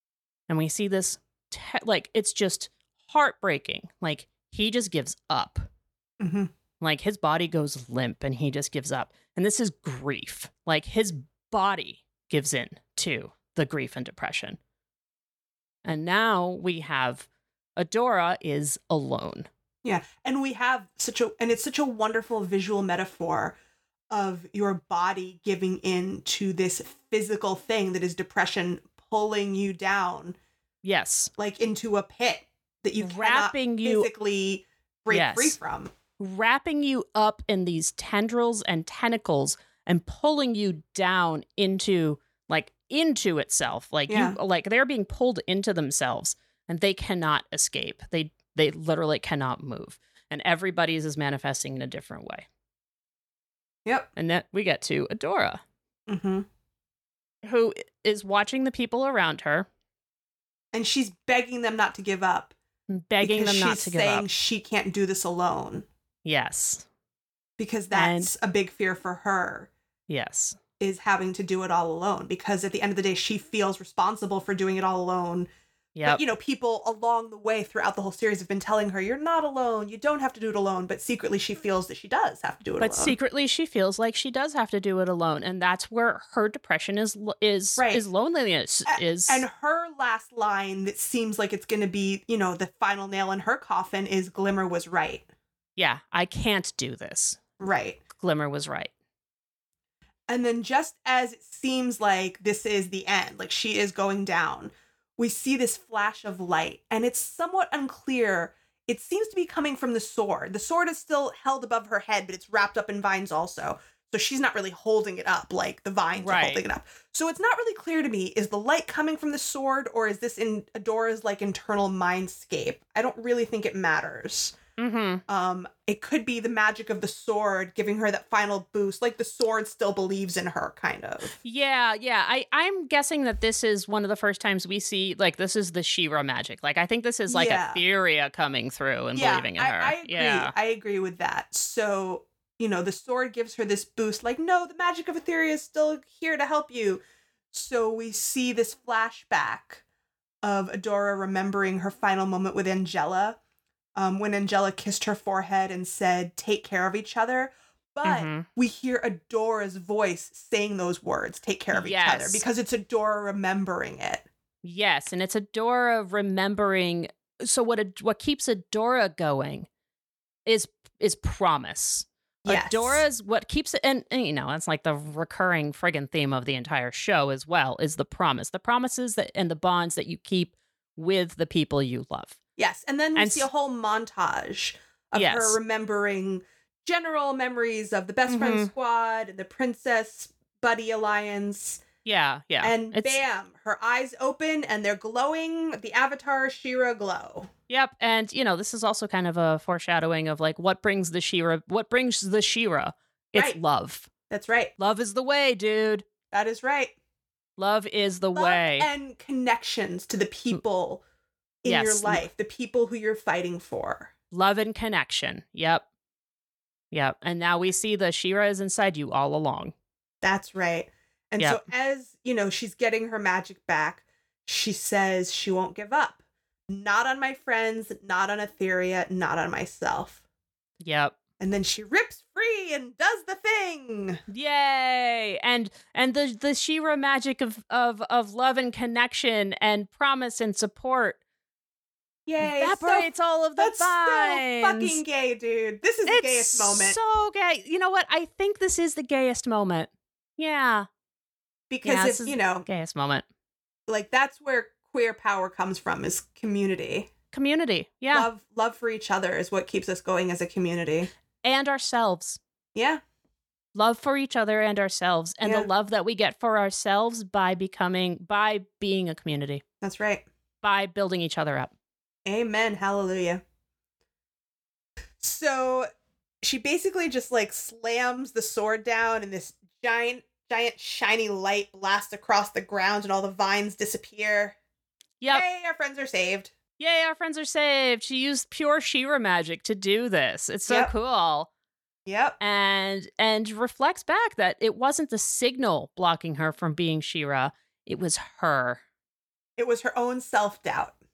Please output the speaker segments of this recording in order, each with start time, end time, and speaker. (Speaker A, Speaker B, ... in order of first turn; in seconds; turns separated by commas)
Speaker A: 0.5-5.7, Speaker B: 6.2-6.5, Speaker A: 6.8-14.6, Speaker A: 15.8-19.5, Speaker B: 19.8-23.6, Speaker B: 24.1-30.4, Speaker A: 30.8-31.3, Speaker B: 31.4-35.9, Speaker A: 33.0-34.1, Speaker A: 35.1-35.6, Speaker A: 36.2-52.5, Speaker B: 44.1-44.4, Speaker A: 54.2-55.6, Speaker B: 56.1-56.5, Speaker A: 57.4-59.7, Speaker B: 60.7-62.5, Speaker A: 62.9-64.3, Speaker B: 63.2-65.9, Speaker A: 66.2-66.9, Speaker B: 67.6-69.7, Speaker A: 67.9-68.3, Speaker A: 70.1-70.6, Speaker B: 70.8-75.5, Speaker A: 76.0-76.2, Speaker B: 76.0-83.2, Speaker A: 82.8-89.5, Speaker B: 87.8-88.0, Speaker B: 88.9-95.3, Speaker A: 95.8-97.4, Speaker B: 97.6-98.0, Speaker A: 98.2-98.9, Speaker B: 100.3-124.6, Speaker A: 116.2-116.6, Speaker A: 124.8-125.2, Speaker B: 125.3-131.3, Speaker A: 131.4-140.5, Speaker B: 137.3-137.8, Speaker B: 139.2-147.0, Speaker B: 147.5-149.8, Speaker B: 150.4-153.4, Speaker B: 154.0-164.3, Speaker A: 158.0-158.5, Speaker A: 161.7-162.4, Speaker A: 164.6-169.7, Speaker A: 170.5-182.4, Speaker B: 172.4-173.0, Speaker B: 182.6-191.8, Speaker A: 183.2-183.5, Speaker A: 185.2-185.6, Speaker A: 188.3-188.7, Speaker A: 192.1-193.2, Speaker B: 192.6-197.5, Speaker A: 197.7-204.1, Speaker B: 204.3-204.7, Speaker A: 204.8-206.1, Speaker B: 206.3-206.9, Speaker A: 207.6-208.9, Speaker B: 208.3-211.0, Speaker B: 211.6-214.1, Speaker A: 211.7-212.2, Speaker A: 214.3-215.9, Speaker A: 216.9-219.7, Speaker B: 220.2-226.2, Speaker B: 226.7-230.2, Speaker A: 230.8-231.2, Speaker B: 231.4-234.2, Speaker A: 234.3-241.2, Speaker B: 242.3-247.0, Speaker A: 242.4-245.0, Speaker A: 246.1-250.9, Speaker B: 251.7-252.7, Speaker A: 251.8-253.3, Speaker B: 253.9-257.1, Speaker A: 257.3-258.3, Speaker B: 258.1-261.1, Speaker A: 261.4-262.4, Speaker B: 262.8-263.0, Speaker A: 263.7-269.6, Speaker B: 265.4-265.7, Speaker B: 269.8-270.2, Speaker A: 270.6-271.7, Speaker B: 272.3-273.4, Speaker B: 275.2-275.9, Speaker B: 276.4-284.6, Speaker A: 285.2-285.4, Speaker B: 285.3-286.5, Speaker A: 286.8-291.5, Speaker B: 290.7-290.9, Speaker B: 292.1-292.4, Speaker A: 292.4-298.8, Speaker B: 299.6-300.9